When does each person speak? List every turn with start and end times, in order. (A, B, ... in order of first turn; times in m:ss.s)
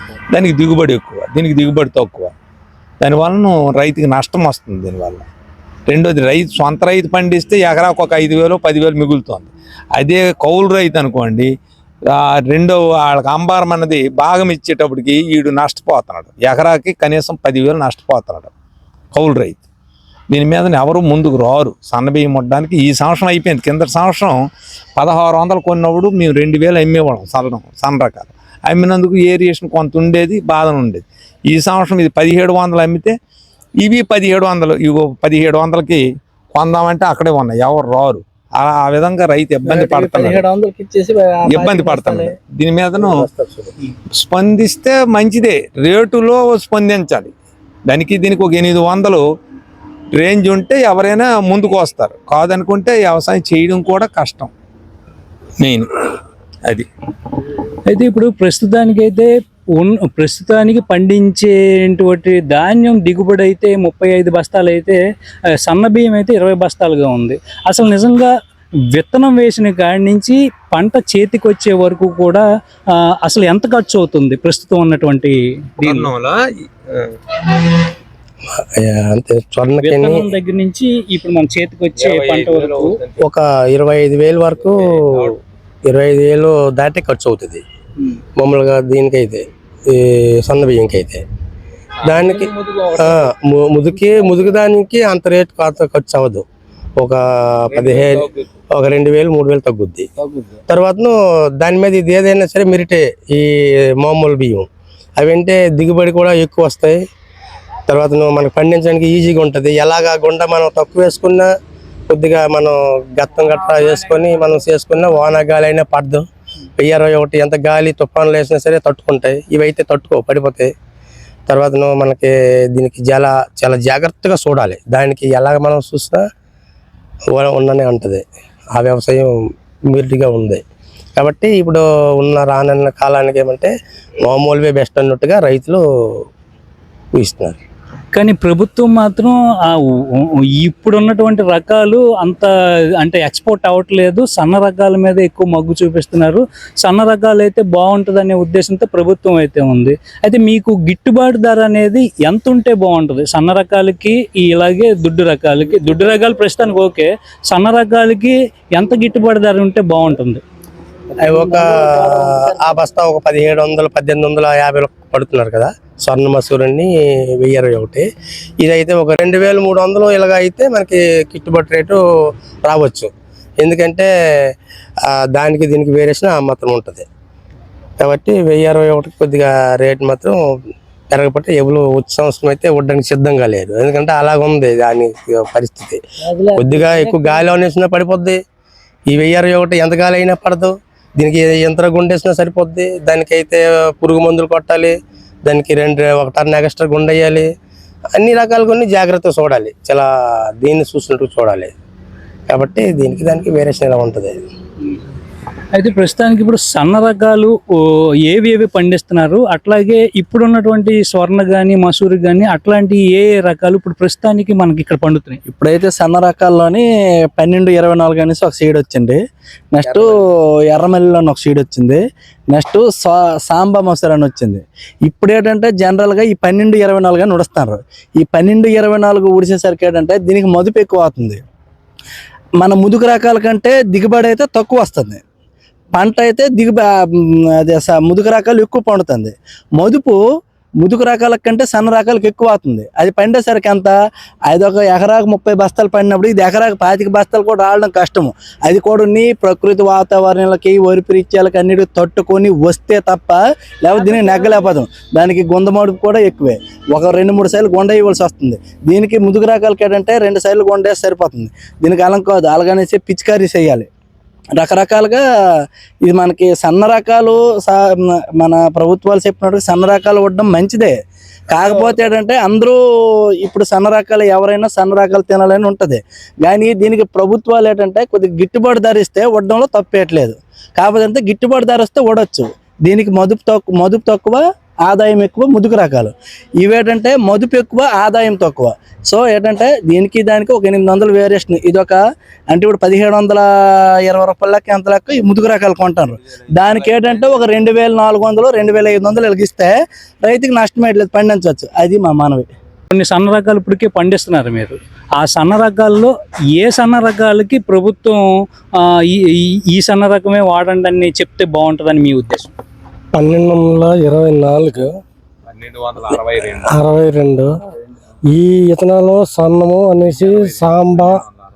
0:00.3-0:02.3 A
0:03.0-0:05.2 A
0:05.9-0:11.5 A
0:12.1-0:18.5 A
0:19.1-0:19.6 A
0:20.3-0:24.4 A
0:25.0-0:33.2 A
0:33.8-0:36.0 A
0:36.5-0:40.4 A
0:41.4-0:43.2 A
0:41.6-0:41.9 B
0:43.0-0:43.7 B
0:44.1-0:47.3 A
0:47.9-0:49.2 A
0:50.2-0:54.5 A
0:55.6-0:55.9 A
0:57.9-1:05.0 C
1:05.7-1:08.3 C
1:08.9-1:12.4 C
1:13.2-1:16.1 C
1:15.8-1:17.2 A
1:18.8-1:20.2 B
1:19.8-1:22.9 C
1:22.0-1:23.2 A
1:23.2-1:25.3 B
1:24.9-1:25.2 A
1:25.9-1:27.6 B
1:28.4-1:31.2 B
1:32.0-1:36.4 B
1:32.1-1:33.2 A
1:37.0-1:40.1 B
1:37.7-1:38.3 A
1:40.7-1:44.7 B
1:45.2-1:47.0 B
1:47.9-1:51.5 B
1:52.1-1:56.3 B
1:56.8-2:00.7 B
2:01.5-2:06.3 B
2:07.3-2:08.2 B
2:08.8-2:09.3 B
2:09.9-2:10.6 B
2:11.2-2:13.7 B
2:14.3-2:15.8 B
2:17.2-2:17.6 B
2:18.1-2:22.5 C
2:23.0-2:40.4 C
2:41.2-2:48.1 B
2:48.6-2:52.0 B
2:52.6-2:54.1 B
2:55.1-2:57.1 B
2:58.0-3:00.4 B
3:01.1-3:06.0 B
3:06.5-3:08.4 B
3:09.1-3:17.5 B
3:18.1-3:21.7 B
3:22.5-3:24.4 B
3:25.7-3:27.6 C
3:28.3-3:35.4 C
3:35.5-3:36.8 D
3:37.4-3:39.2 D
3:39.7-3:40.2 D
3:39.8-3:40.1 B
3:40.7-3:51.4 D
3:52.6-3:55.2 D
3:56.0-3:56.9 D
3:57.6-4:00.2 D
4:00.8-4:03.9 D
4:04.5-4:23.9 D
4:24.6-4:25.2 D
4:26.1-4:27.8 D
4:28.4-4:31.0 D
4:31.5-4:32.8 D
4:33.4-4:52.0 D
4:52.5-4:53.4 D
4:54.1-5:02.5 D
5:02.9-5:08.2 C
5:08.8-5:12.5 C
5:13.1-5:14.9 E
5:15.5-5:16.7 A
5:16.6-5:17.5 E
5:18.3-5:21.2 E
5:20.2-5:21.4 A